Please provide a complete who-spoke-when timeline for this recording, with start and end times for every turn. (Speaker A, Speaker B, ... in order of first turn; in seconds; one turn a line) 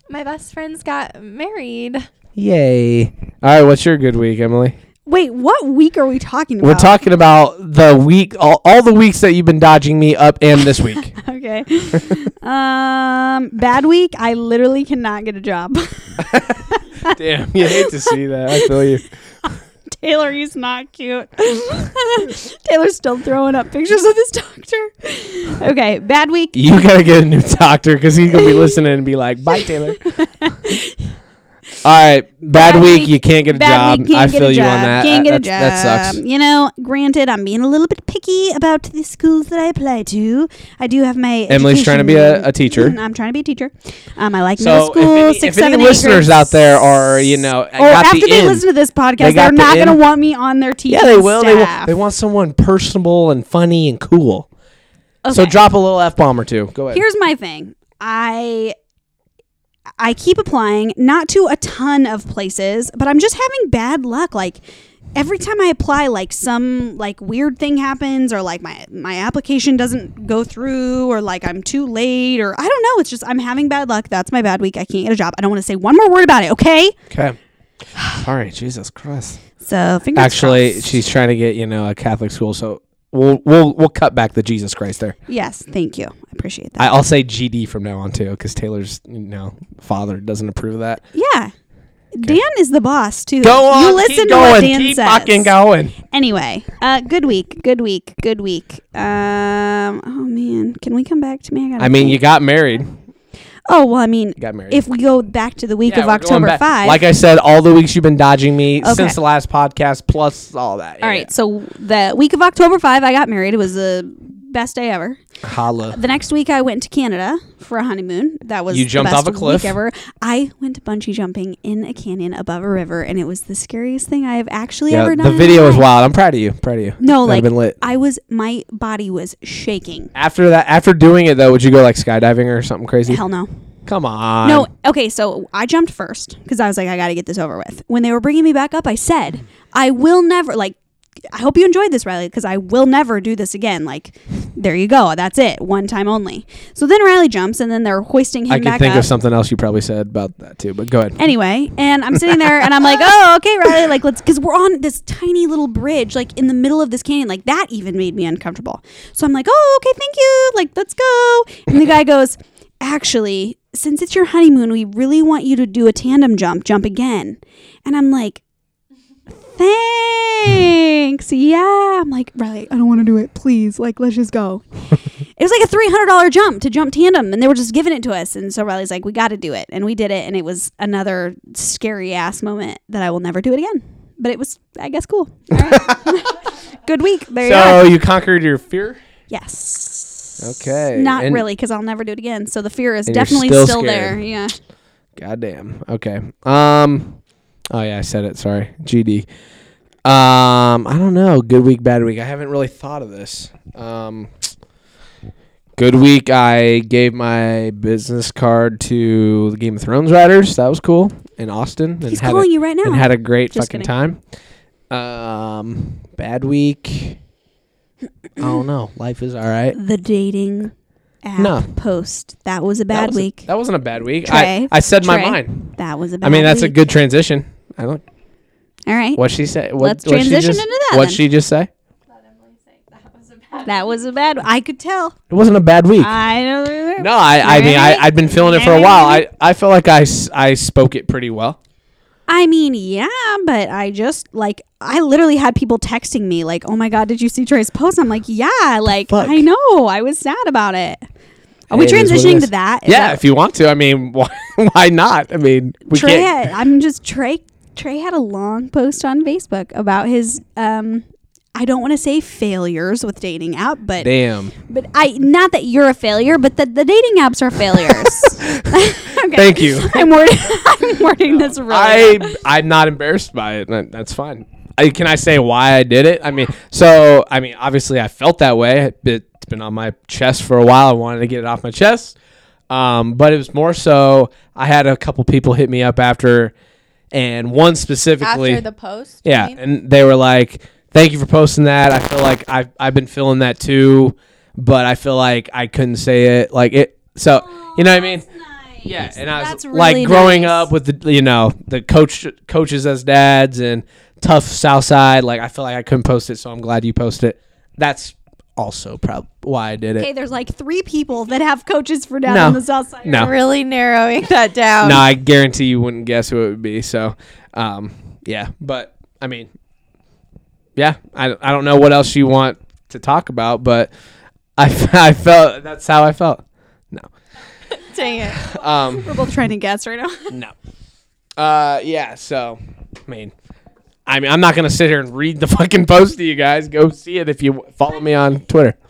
Speaker A: 0.1-2.0
Speaker B: 2.4-4.8
Speaker C: 5.1-7.0
Speaker B: 6.6-11.1
Speaker C: 11.2-17.1
Speaker B: 16.2-19.0
Speaker C: 17.7-26.5
Speaker B: 26.5-30.0
Speaker C: 28.3-28.8
Speaker C: 29.5-31.1
Speaker B: 31.8-36.2
Speaker C: 32.5-51.9
Speaker B: 41.5-43.0
Speaker B: 44.6-48.6
Speaker B: 49.2-50.0
Speaker B: 50.9-54.5
Speaker C: 55.2-55.6
Speaker B: 55.3-57.0
Speaker C: 56.9-58.7
Speaker C: 60.0-64.6
Speaker C: 65.1-77.0
Speaker B: 77.1-77.4
Speaker B: 78.0-79.4
Speaker C: 79.6-81.0
Speaker B: 80.1-85.2
Speaker C: 85.3-87.0
Speaker B: 86.8-91.0
Speaker C: 91.1-91.5
Speaker C: 92.1-95.5
Speaker B: 93.4-96.0
Speaker C: 96.0-102.2
Speaker B: 101.8-103.0
Speaker C: 103.7-107.0
Speaker B: 104.4-104.8
Speaker B: 105.8-111.3
Speaker C: 108.8-109.2
Speaker C: 111.0-115.2
Speaker B: 115.4-116.0
Speaker C: 115.9-125.9
Speaker B: 118.7-119.8
Speaker B: 124.9-127.8
Speaker C: 127.0-130.1
Speaker B: 130.1-133.2
Speaker C: 133.1-133.5
Speaker B: 133.8-134.7
Speaker C: 134.4-140.8
Speaker C: 141.3-149.1
Speaker B: 148.5-151.2
Speaker C: 151.2-168.4
Speaker B: 152.1-153.0
Speaker C: 169.5-174.6
Speaker C: 175.4-187.9
Speaker B: 185.5-186.1
Speaker B: 187.4-189.0
Speaker C: 189.3-194.6
Speaker B: 190.4-191.4
Speaker B: 193.1-194.2
Speaker B: 195.2-197.2
Speaker B: 197.7-199.3
Speaker B: 200.0-204.5
Speaker B: 205.8-214.2
Speaker C: 212.1-213.9
Speaker B: 214.9-217.2
Speaker B: 218.4-219.8
Speaker C: 219.7-220.7
Speaker C: 221.2-223.5
Speaker B: 221.4-221.7
Speaker B: 222.9-225.7
Speaker C: 224.2-226.8
Speaker B: 226.2-228.0
Speaker C: 228.9-229.2
Speaker B: 229.1-231.7
Speaker C: 229.8-231.2
Speaker A: 232.1-234.2
Speaker C: 233.6-235.2
Speaker B: 235.3-236.2
Speaker C: 236.0-239.2
Speaker B: 237.0-241.6
Speaker C: 242.3-251.0
Speaker B: 249.1-249.5
Speaker C: 251.7-253.2
Speaker B: 251.7-256.5
Speaker C: 255.9-264.1
Speaker B: 264.0-264.5
Speaker C: 264.6-272.4
Speaker B: 268.4-270.6
Speaker B: 271.2-282.2
Speaker B: 282.7-286.5
Speaker B: 287.1-288.6
Speaker A: 288.2-289.6
Speaker B: 289.2-298.2
Speaker C: 297.3-300.7
Speaker B: 298.8-310.1
Speaker C: 310.0-313.3
Speaker B: 312.2-313.3
Speaker A: 313.1-315.1
Speaker B: 314.8-319.5
Speaker B: 320.8-323.9
Speaker B: 324.6-327.1
Speaker A: 327.7-328.4
Speaker C: 328.0-330.4
Speaker B: 328.3-329.2
Speaker B: 330.3-330.5
Speaker B: 331.4-333.3
Speaker B: 334.1-338.8